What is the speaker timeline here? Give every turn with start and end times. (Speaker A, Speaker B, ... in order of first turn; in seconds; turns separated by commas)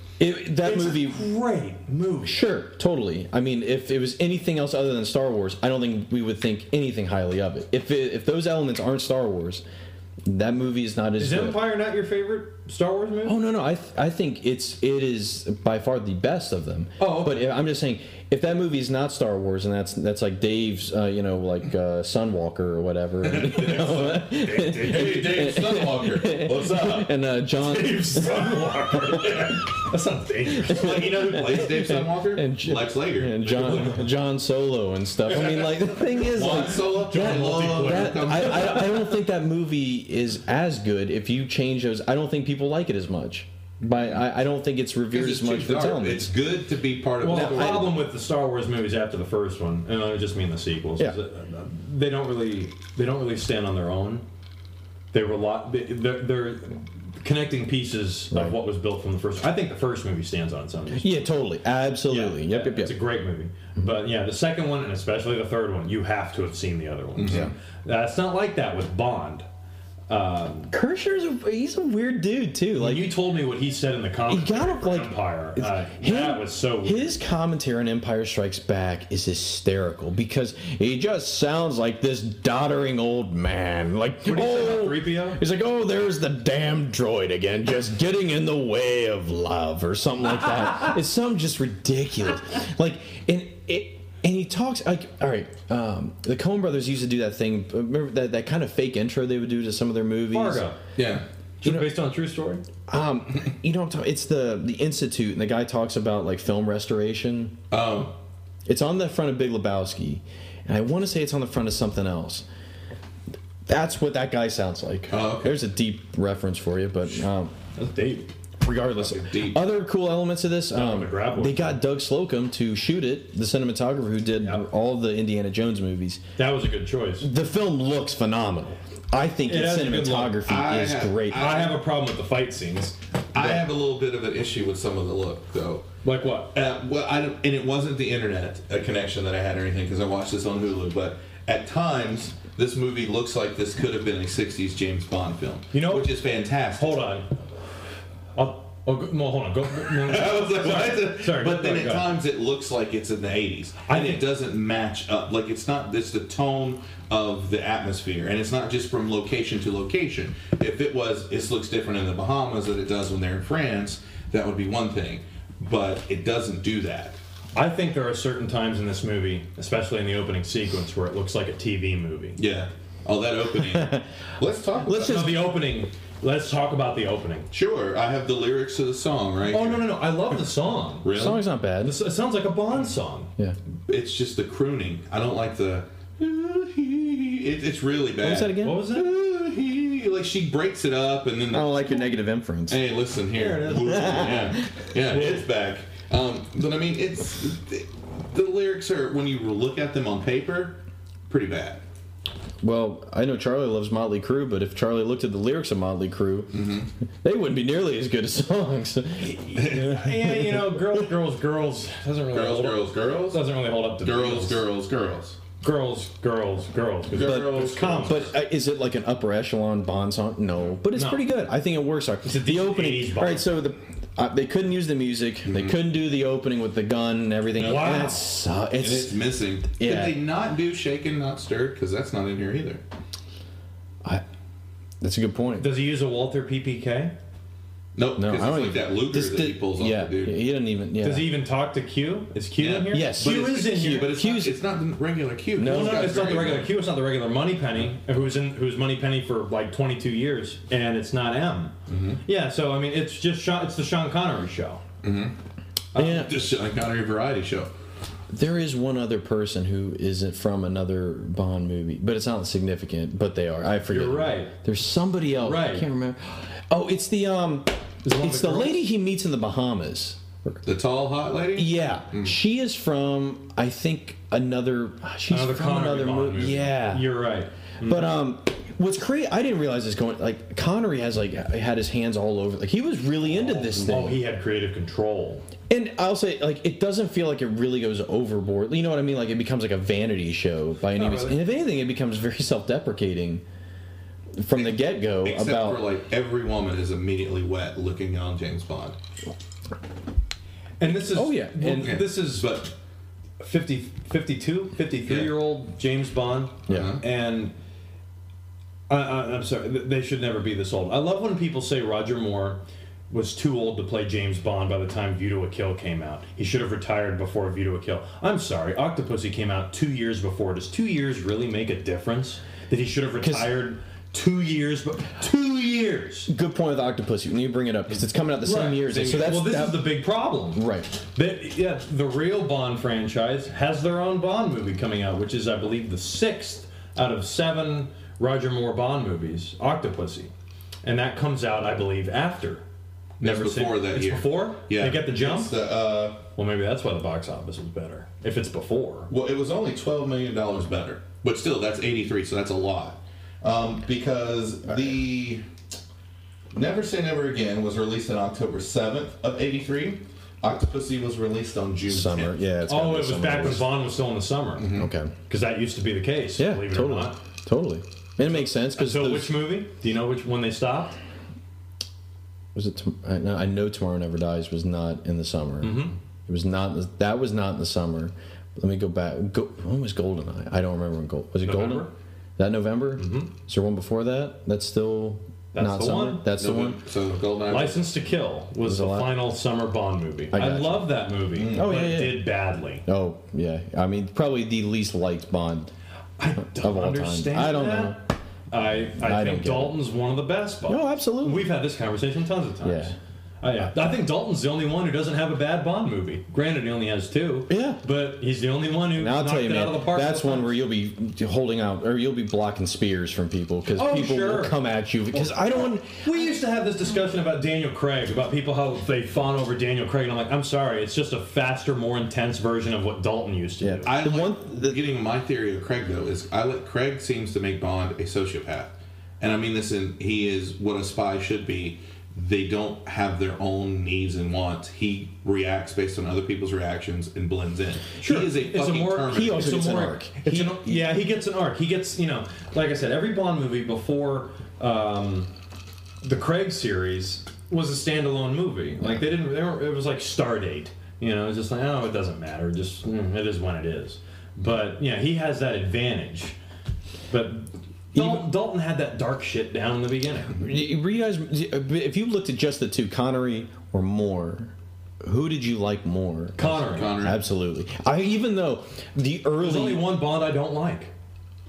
Speaker A: 0.2-1.2, Speaker B: 0.6-2.4, Speaker A: 2.2-9.6, Speaker A: 10.2-11.6, Speaker B: 11.2-13.4, Speaker A: 13.2-29.4, Speaker B: 17.0-17.4, Speaker B: 23.3-25.3, Speaker C: 24.6-27.1, Speaker B: 27.5-31.6, Speaker A: 30.5-46.3, Speaker C: 30.6-34.1, Speaker B: 33.6-34.0, Speaker B: 35.3-35.9, Speaker C: 36.1-39.0, Speaker B: 36.9-38.9, Speaker C: 45.1-48.0, Speaker B: 47.2-54.2, Speaker A: 47.2-47.9, Speaker B: 55.1-61.2, Speaker A: 60.9-63.0, Speaker B: 62.1-69.5, Speaker C: 67.2-67.5, Speaker B: 70.1-70.7, Speaker A: 70.7-73.1, Speaker B: 72.7-77.1, Speaker A: 74.3-100.6, Speaker B: 84.2-85.4, Speaker B: 100.3-100.8, Speaker C: 101.0-101.2, Speaker B: 101.6-102.6, Speaker A: 101.6-101.9, Speaker A: 102.9-107.6, Speaker C: 107.7-108.1, Speaker A: 108.7-112.5, Speaker A: 113.7-117.5, Speaker C: 115.1-115.6, Speaker B: 117.7-118.3, Speaker A: 118.6-126.2, Speaker C: 118.9-119.6, Speaker B: 120.7-121.8, Speaker B: 126.4-127.3, Speaker A: 127.2-131.5, Speaker B: 129.4-130.4, Speaker C: 130.4-131.8, Speaker B: 131.3-132.9, Speaker C: 133.3-135.9, Speaker B: 136.0-136.5, Speaker C: 136.5-147.0, Speaker B: 145.7-146.1, Speaker B: 146.7-147.3, Speaker B: 148.3-152.1, Speaker C: 149.8-167.2, Speaker B: 153.8-154.2, Speaker B: 167.5-172.4, Speaker C: 172.4-175.3, Speaker A: 173.6-174.0, Speaker A: 174.8-175.3, Speaker B: 174.8-177.5, Speaker C: 177.5-180.1, Speaker B: 179.5-183.3, Speaker C: 181.0-181.4, Speaker A: 181.1-182.0, Speaker C: 183.9-192.1, Speaker A: 188.2-188.9, Speaker B: 188.6-189.1, Speaker A: 191.5-192.8, Speaker C: 192.7-201.8, Speaker B: 193.3-194.3, Speaker A: 193.7-194.8, Speaker B: 195.1-195.4, Speaker A: 202.6-206.7, Speaker C: 206.5-206.9, Speaker A: 207.2-211.1, Speaker B: 209.2-214.6, Speaker C: 209.6-210.0, Speaker C: 212.3-215.4, Speaker B: 215.6-218.3, Speaker C: 217.1-218.3, Speaker A: 217.2-229.1, Speaker B: 220.9-221.3, Speaker B: 222.2-223.5, Speaker C: 225.5-225.8, Speaker B: 227.6-228.2, Speaker C: 227.6-228.0, Speaker C: 228.8-232.8, Speaker A: 229.8-230.2, Speaker A: 235.0-235.7, Speaker B: 235.6-237.1, Speaker C: 237.9-240.4, Speaker A: 238.2-241.3, Speaker B: 241.0-244.2, Speaker C: 242.6-246.8, Speaker A: 242.9-244.6, Speaker A: 245.6-246.3, Speaker B: 245.6-251.7, Speaker C: 251.9-252.2, Speaker B: 252.2-254.8, Speaker C: 255.0-255.3, Speaker A: 255.9-256.3, Speaker C: 255.9-257.7, Speaker A: 258.3-270.6, Speaker B: 263.9-264.5, Speaker B: 265.4-265.9, Speaker B: 268.0-268.8, Speaker C: 270.6-272.4, Speaker A: 271.5-277.2, Speaker B: 275.3-278.1, Speaker A: 277.8-284.2, Speaker B: 283.3-285.4, Speaker A: 285.7-293.4, Speaker B: 290.9-291.4, Speaker A: 294.4-295.8, Speaker C: 294.5-299.0, Speaker B: 300.8-302.5, Speaker A: 301.1-302.0, Speaker C: 301.8-302.7, Speaker B: 303.4-307.5, Speaker C: 305.1-305.3, Speaker A: 306.7-307.0, Speaker C: 306.7-307.0, Speaker B: 308.9-326.3, Speaker A: 323.2-323.5, Speaker A: 326.3-330.9, Speaker B: 328.4-340.3, Speaker C: 328.9-329.3, Speaker B: 340.8-342.6, Speaker C: 343.2-346.2, Speaker B: 343.2-345.5, Speaker B: 346.4-349.1, Speaker C: 349.1-355.4, Speaker C: 356.5-362.3, Speaker A: 361.9-363.7, Speaker B: 362.7-364.7, Speaker C: 364.6-364.9, Speaker A: 364.7-365.1, Speaker B: 365.3-367.2, Speaker A: 366.4-369.4, Speaker B: 368.3-371.0, Speaker A: 372.5-386.8, Speaker B: 375.6-375.9, Speaker B: 381.4-381.9, Speaker B: 383.0-383.3, Speaker B: 385.5-386.2, Speaker C: 386.4-387.9, Speaker B: 387.5-392.8, Speaker A: 388.6-389.3, Speaker A: 390.3-392.3, Speaker C: 391.4-391.6, Speaker A: 392.9-395.7, Speaker B: 396.2-398.0, Speaker A: 396.4-398.0, Speaker B: 398.5-410.6, Speaker A: 399.0-399.8, Speaker A: 400.7-401.5, Speaker A: 402.6-402.9, Speaker A: 407.5-407.8, Speaker A: 408.9-416.2, Speaker B: 413.7-414.6, Speaker B: 415.5-423.9, Speaker A: 423.6-424.8, Speaker C: 423.9-439.6, Speaker B: 438.0-445.3, Speaker A: 439.1-440.9, Speaker B: 446.0-456.4, Speaker B: 457.1-460.4, Speaker A: 457.9-458.3, Speaker A: 460.4-469.9, Speaker B: 466.4-467.0, Speaker C: 466.6-467.2, Speaker B: 469.4-470.9